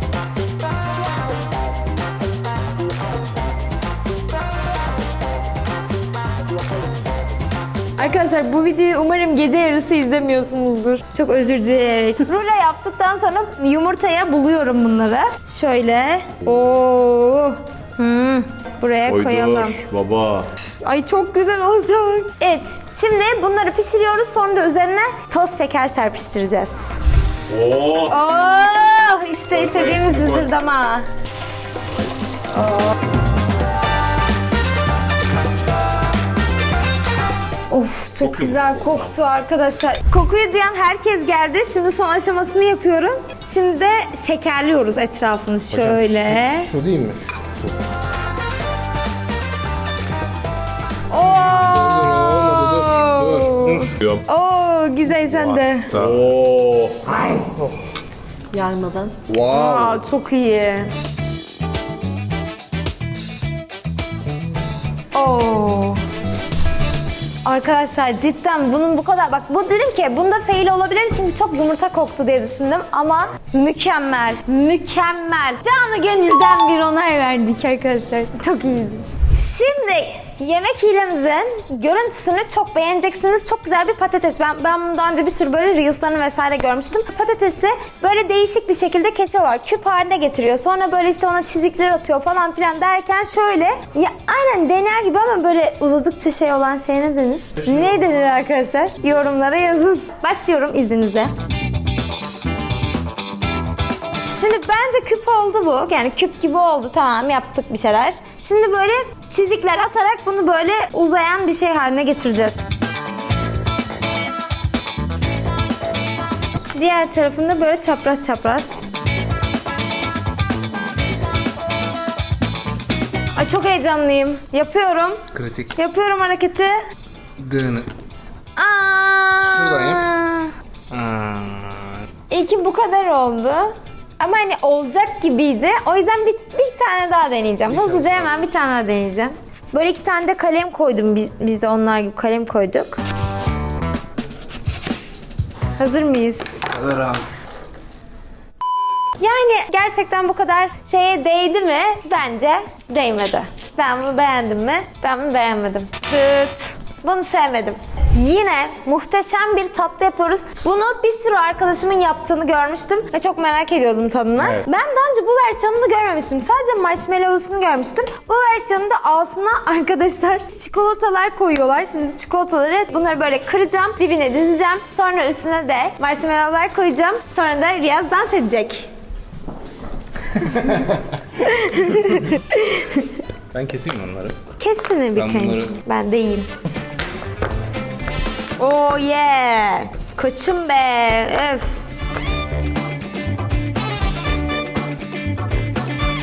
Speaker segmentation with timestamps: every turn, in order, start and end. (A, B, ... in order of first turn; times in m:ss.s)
0:08.0-0:19.8 A
0:19.1-0:20.5 B
0:20.8-0:26.8 A
0:27.5-0:28.2 B
0:28.1-0:31.1 A
0:29.5-0:30.4 B
0:32.5-0:32.9 A
0:37.7-0:46.7 A
0:38.2-0:39.2 B
0:45.7-0:47.6 C
0:51.1-0:55.9 A
0:51.3-0:53.9 C
0:55.2-0:56.3 C
0:55.9-0:57.3 B
0:59.2-1:00.0 C
0:59.5-1:00.9 A
1:05.1-1:06.0 A
1:07.4-1:41.3 A
1:44.3-1:52.6 A
1:56.7-1:58.8 A
2:03.3-2:05.2 A
2:05.3-2:05.8 C
2:05.8-2:06.8 A
2:07.4-2:07.9 C
2:08.6-2:10.5 A
2:09.4-2:10.0 C
2:10.9-2:12.0 C
2:12.3-2:23.0 A
2:17.6-2:18.5 C
2:25.8-2:27.2 A
2:29.2-2:58.9 A
2:44.4-2:44.7 C
3:00.4-3:01.2 C
3:01.3-3:03.2 A
3:01.9-3:02.3 C
3:03.5-3:04.4 C
3:04.6-3:06.5 A
3:05.1-3:05.8 C
3:08.6-3:11.8 A